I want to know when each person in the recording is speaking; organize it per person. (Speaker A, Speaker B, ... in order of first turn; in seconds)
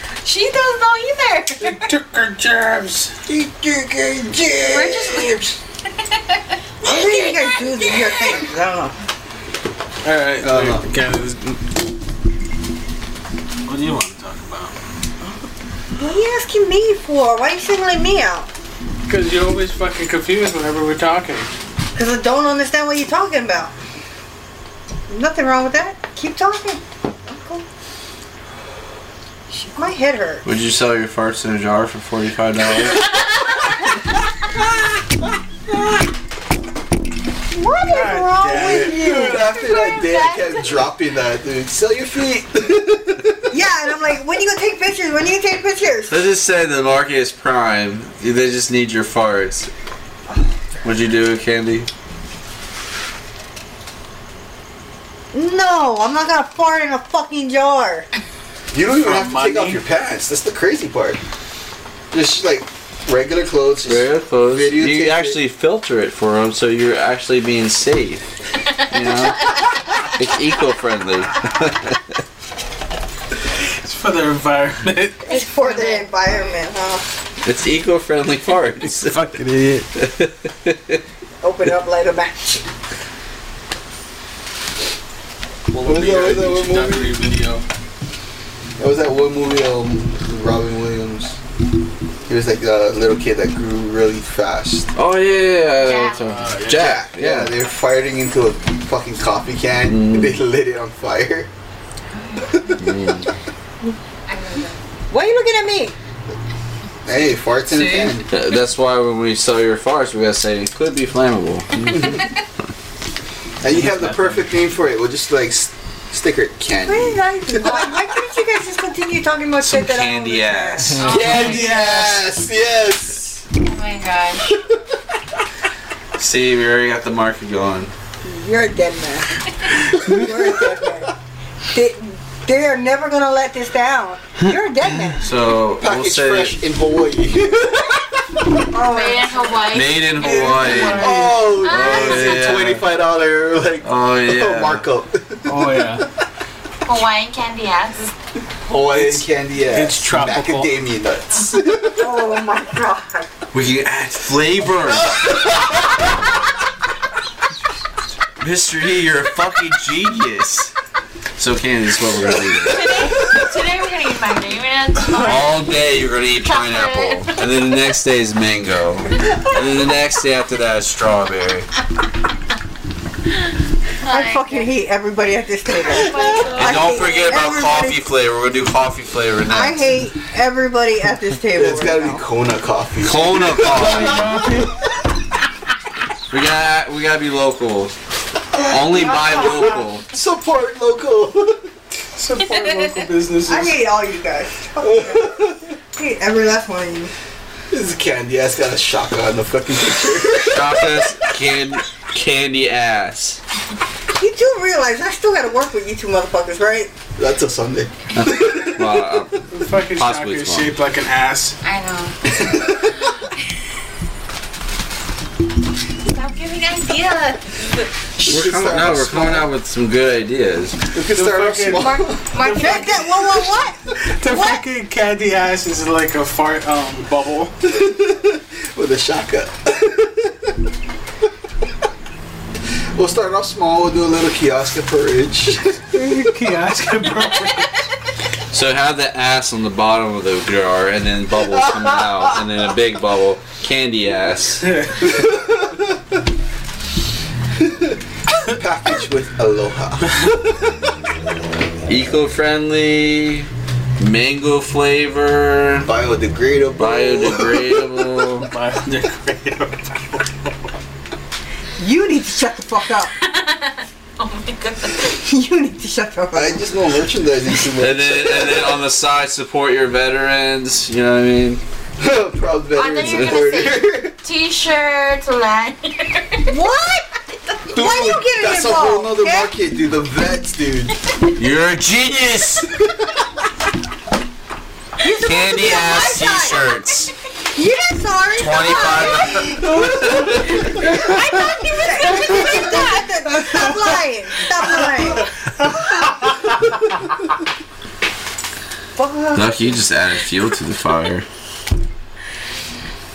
Speaker A: 0.2-1.9, 4.6-5.6, 6.1-8.4, 39.4-40.6, 75.3-76.6, 95.8-96.2, 102.1-102.7, 104.3-104.8, 107.7-108.2, 121.0-122.2, 123.5-124.5, 138.8-142.4, 146.8-148.1, 162.6-165.7, 166.4-167.4, 174.0-174.7, 175.8-177.3, 211.6-213.3, 216.0-217.9, 221.7-223.2, 263.1-265.1, 272.7-276.6
Speaker B: 1.6-3.1, 10.0-11.6, 13.6-14.8, 19.1-21.5, 37.9-39.0, 58.9-59.8, 73.7-75.3, 78.8-79.9, 85.7-87.6, 96.2-96.9, 113.7-114.4, 140.2-141.4, 142.5-142.8, 145.4-146.1, 148.8-150.7, 183.7-184.7, 192.1-193.8, 209.5-211.6, 221.1-222.0, 224.0-227.5, 235.9-237.7, 244.6-245.2, 258.4-260.5
Speaker C: 3.3-5.5, 10.4-10.8, 38.7-43.5, 58.7-61.2, 62.1-65.4, 85.8-87.1, 88.8-91.4, 92.3-94.9, 96.7-101.5, 107.0-108.3, 113.6-117.9, 121.0-123.5, 124.5-124.8, 135.8-138.5, 140.9-145.9, 148.7-152.3, 181.5-184.3, 190.0-191.7, 194.8-195.6, 197.7-200.9, 207.2-209.2, 212.3-212.9, 218.2-219.5, 220.9-222.3, 227.6-230.6, 232.9-236.1, 241.5-242.4, 245.0-245.9, 247.6-250.9, 255.8-257.8, 266.3-268.8, 272.0-274.1, 277.7-280.9, 289.7-290.4
Speaker D: 6.8-8.9, 15.9-18.5, 21.9-23.7, 25.1-27.6, 29.7-30.4, 37.5-39.5, 43.5-46.2, 55.3-58.1, 75.2-77.0, 81.4-82.6, 105.1-105.9, 116.9-121.7, 128.2-131.2, 131.7-135.2, 138.6-139.7, 152.0-153.3, 174.1-178.0, 179.5-182.2, 188.9-189.7, 193.5-197.1, 204.1-206.9, 222.4-223.8, 261.8-263.1, 265.0-266.6, 276.5-277.1, 277.7-279.5, 285.0-286.8, 287.5-296.3, 298.9-299.7
Speaker E: 30.4-33.2, 46.1-49.7, 50.8-51.9, 63.8-68.2, 68.8-72.2, 77.4-79.2, 80.0-81.0, 94.9-97.5, 99.9-100.3, 102.8-103.3, 108.3-112.2, 119.6-121.6, 126.2-127.9, 135.2-136.6, 139.7-142.8, 143.8-144.8, 153.5-155.2, 158.4-160.7, 161.4-163.3, 165.1-171.7, 176.5-179.9, 183.0-184.5, 186.3-187.9, 188.6-190.1, 200.4-203.4, 208.1-210.7, 218.2-220.8, 238.5-244.8, 251.9-253.5, 254.0-255.9, 256.8-258.5, 267.8-271.6, 272.9-273.5, 281.4-282.7, 285.2-287.1, 288.3-291.0, 299.3-301.2